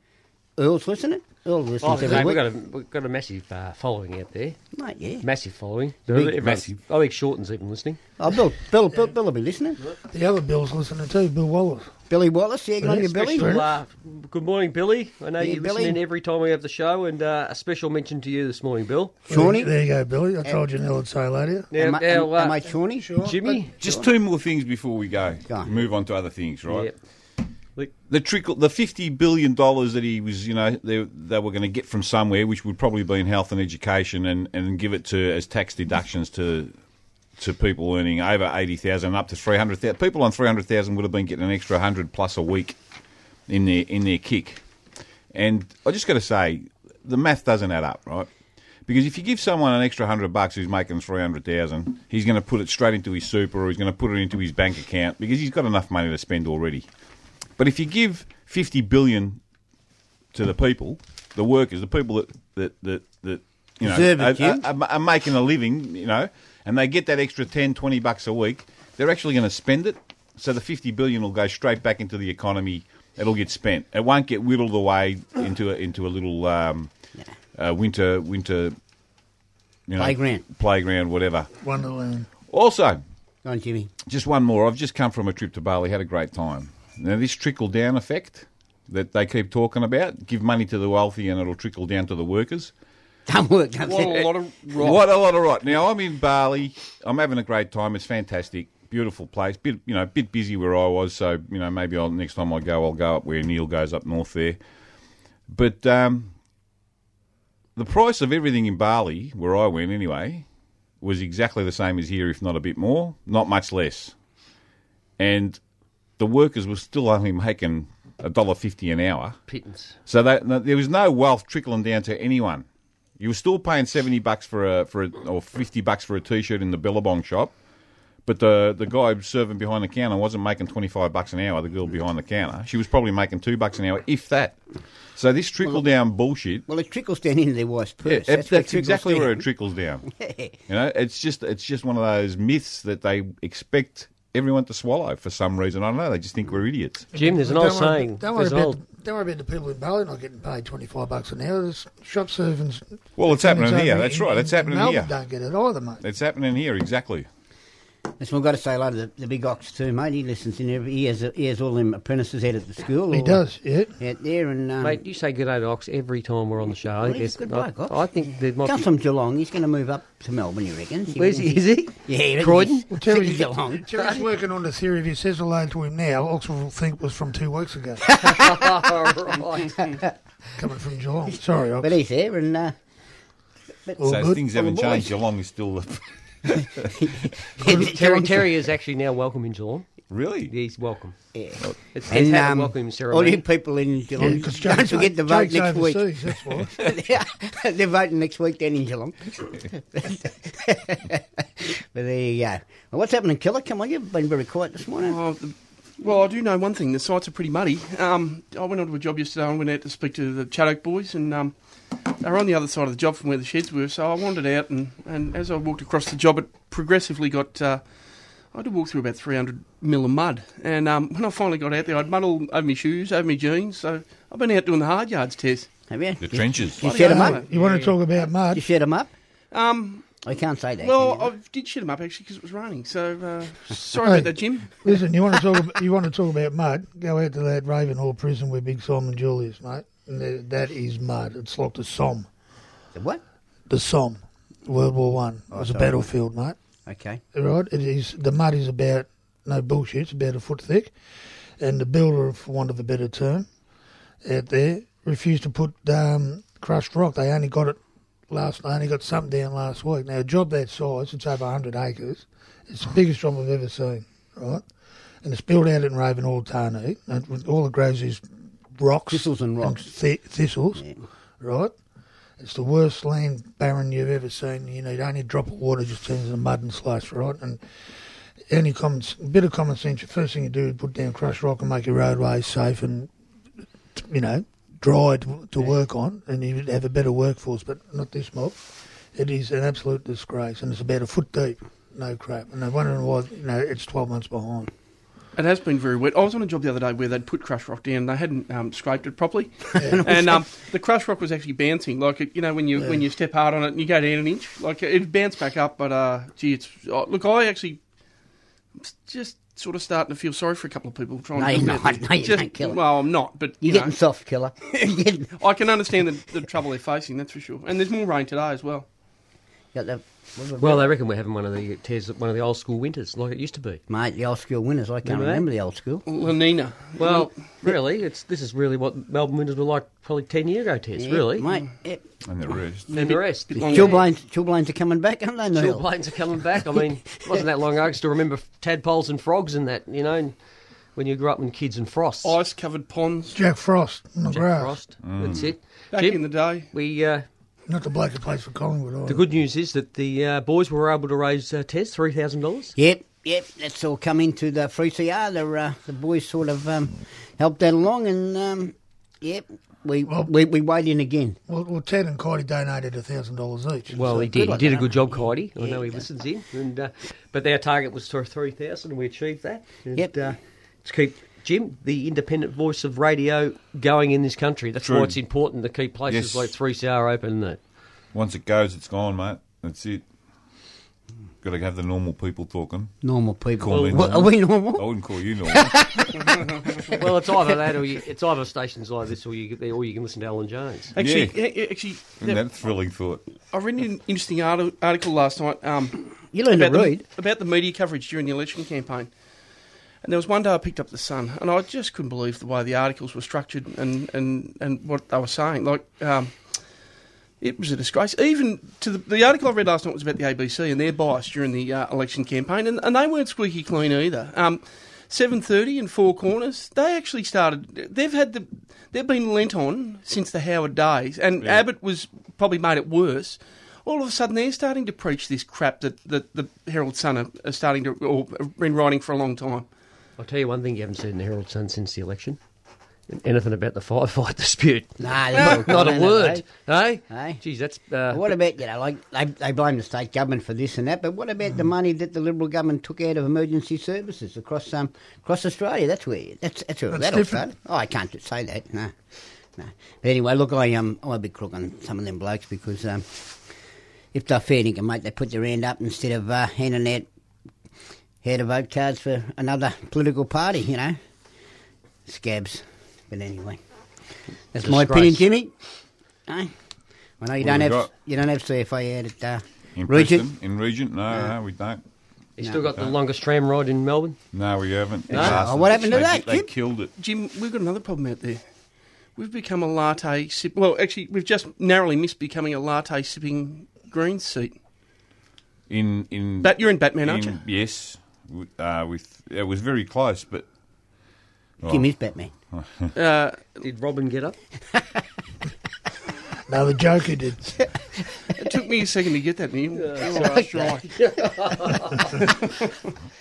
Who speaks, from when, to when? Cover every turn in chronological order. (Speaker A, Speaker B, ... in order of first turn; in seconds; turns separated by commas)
Speaker A: 0.6-2.4, Speaker B: 1.8-4.6, Speaker A: 4.7-5.2, Speaker B: 5.2-8.0, Speaker C: 6.1-6.8, Speaker A: 8.2-9.8, Speaker D: 10.1-11.9, Speaker A: 12.1-13.5, Speaker D: 12.8-13.7, Speaker B: 12.9-19.3, Speaker A: 15.4-16.0, Speaker A: 19.3-19.7, Speaker D: 19.3-21.7, Speaker B: 21.7-22.6, Speaker A: 21.8-23.2, Speaker D: 23.0-23.7, Speaker B: 23.1-23.7, Speaker C: 23.8-26.9, Speaker B: 26.7-26.9, Speaker C: 28.1-36.7, Speaker C: 37.4-42.8, Speaker C: 43.5-44.6, Speaker C: 45.3-48.3, Speaker C: 48.9-56.9, Speaker C: 57.6-59.4, Speaker C: 60.3-76.9, Speaker A: 63.8-64.6, Speaker C: 77.5-78.8, Speaker C: 79.9-81.5, Speaker A: 80.0-80.4, Speaker D: 81.6-82.3, Speaker C: 82.5-83.0, Speaker A: 83.4-83.9, Speaker C: 84.0-92.7, Speaker A: 93.3-94.3, Speaker E: 93.8-95.0, Speaker C: 94.8-104.6, Speaker C: 105.5-106.3, Speaker C: 107.8-110.4, Speaker C: 111.0-114.1, Speaker C: 115.2-115.6, Speaker C: 116.2-119.4, Speaker B: 119.5-119.9, Speaker C: 120.0-122.6, Speaker C: 123.2-127.5, Speaker C: 128.2-134.6, Speaker C: 135.2-136.7, Speaker A: 136.7-139.4, Speaker C: 138.0-140.1, Speaker A: 140.2-140.5, Speaker C: 140.7-147.1, Speaker D: 147.1-156.0, Speaker B: 147.1-148.8, Speaker C: 153.2-155.1, Speaker C: 156.0-157.3, Speaker A: 158.2-163.4, Speaker D: 163.1-164.0, Speaker A: 164.0-165.0, Speaker B: 164.8-168.8, Speaker A: 167.0-167.9, Speaker A: 168.6-174.1, Speaker B: 171.1-172.9, Speaker D: 172.9-178.1, Speaker A: 178.1-178.5, Speaker B: 178.2-179.9, Speaker A: 179.8-180.1, Speaker D: 180.6-181.9, Speaker A: 181.8-182.8, Speaker D: 184.0-184.4, Speaker C: 184.0-186.9, Speaker A: 184.5-185.1, Speaker A: 186.6-188.4, Speaker D: 187.6-188.0, Speaker B: 187.6-189.9, Speaker C: 190.1-190.5, Speaker B: 190.5-191.1, Speaker A: 191.3-205.2, Speaker B: 191.9-193.4, Speaker D: 194.2-196.7, Speaker E: 205.0-211.5, Speaker E: 212.1-217.8, Speaker E: 218.5-225.7, Speaker A: 225.9-227.4, Speaker C: 226.2-226.9, Speaker E: 226.8-227.9, Speaker D: 226.9-228.6, Speaker A: 228.5-229.1, Speaker E: 229.5-230.1, Speaker A: 230.2-231.3, Speaker E: 230.8-235.0, Speaker D: 234.0-242.3, Speaker A: 242.9-243.2, Speaker D: 243.7-246.6, Speaker A: 245.5-246.1, Speaker A: 246.9-247.2, Speaker D: 247.3-250.9, Speaker D: 251.6-253.5, Speaker D: 254.2-264.6, Speaker D: 265.2-268.2, Speaker D: 268.8-270.9, Speaker A: 269.1-269.8, Speaker D: 271.4-271.7, Speaker D: 272.4-277.6, Speaker D: 278.5-283.1, Speaker D: 283.9-294.7, Speaker E: 295.4-307.8, Speaker D: 299.8-300.2, Speaker A: 299.8-300.4, Speaker E: 308.8-313.9, Speaker A: 311.4-312.8, Speaker A: 313.6-315.4, Speaker E: 315.4-318.9, Speaker A: 319.7-320.9, Speaker B: 320.6-323.8, Speaker A: 323.9-326.1, Speaker B: 325.0-325.4, Speaker E: 326.1-327.3, Speaker B: 327.0-331.5, Speaker A: 331.0-332.0, Speaker C: 332.2-332.9, Speaker E: 332.9-334.0, Speaker B: 332.9-334.0, Speaker A: 333.5-335.9, Speaker B: 335.5-340.3, Speaker B: 340.9-342.4, Speaker E: 342.2-343.4, Speaker D: 343.4-344.8, Speaker B: 344.3-347.2, Speaker C: 345.0-345.5, Speaker E: 345.9-346.7, Speaker D: 347.7-349.2, Speaker B: 349.1-352.7, Speaker A: 352.8-361.4, Speaker D: 361.5-364.0, Speaker A: 363.9-366.0, Speaker B: 363.9-377.6, Speaker A: 369.9-370.2, Speaker C: 374.8-375.1, Speaker C: 376.1-376.5, Speaker C: 378.1-380.0, Speaker C: 381.4-382.9, Speaker A: 383.0-384.9, Speaker C: 383.6-386.3, Speaker B: 383.7-384.0, Speaker A: 385.5-386.5, Speaker E: 386.3-386.8, Speaker B: 386.9-390.9, Speaker E: 390.9-392.4, Speaker C: 391.0-391.4, Speaker C: 392.2-393.2, Speaker E: 393.5-399.1, Speaker A: 396.3-397.0, Speaker E: 400.0-406.4, Speaker E: 407.4-429.7, Speaker B: 430.2-432.4, Speaker B: 433.1-438.3, Speaker A: 435.0-436.4, Speaker A: 437.1-437.4, Speaker A: 438.1-448.9, Speaker D: 446.9-447.4, Speaker A: 449.6-453.2, Speaker A: 454.1-457.1, Speaker A: 458.2-461.0, Speaker A: 462.1-463.6, Speaker A: 464.5-465.5, Speaker B: 464.6-465.2, Speaker A: 466.3-466.5, Speaker A: 467.2-470.3, Speaker C: 467.4-467.9, Speaker C: 469.8-471.8, Speaker B: 472.4-474.2, Speaker A: 472.4-472.7, Speaker C: 474.3-476.9, Speaker B: 475.1-475.4, Speaker A: 475.1-476.5, Speaker E: 477.0-478.4, Speaker E: 479.1-484.6, Speaker C: 485.7-490.5, Speaker E: 486.4-487.4, Speaker C: 491.6-491.9, Speaker A: 491.6-492.3, Speaker C: 492.5-492.9, Speaker E: 492.9-493.6, Speaker B: 493.6-494.4, Speaker D: 496.5-497.6, Speaker A: 497.6-498.5, Speaker E: 498.4-500.9, Speaker B: 499.8-502.3, Speaker A: 500.1-500.8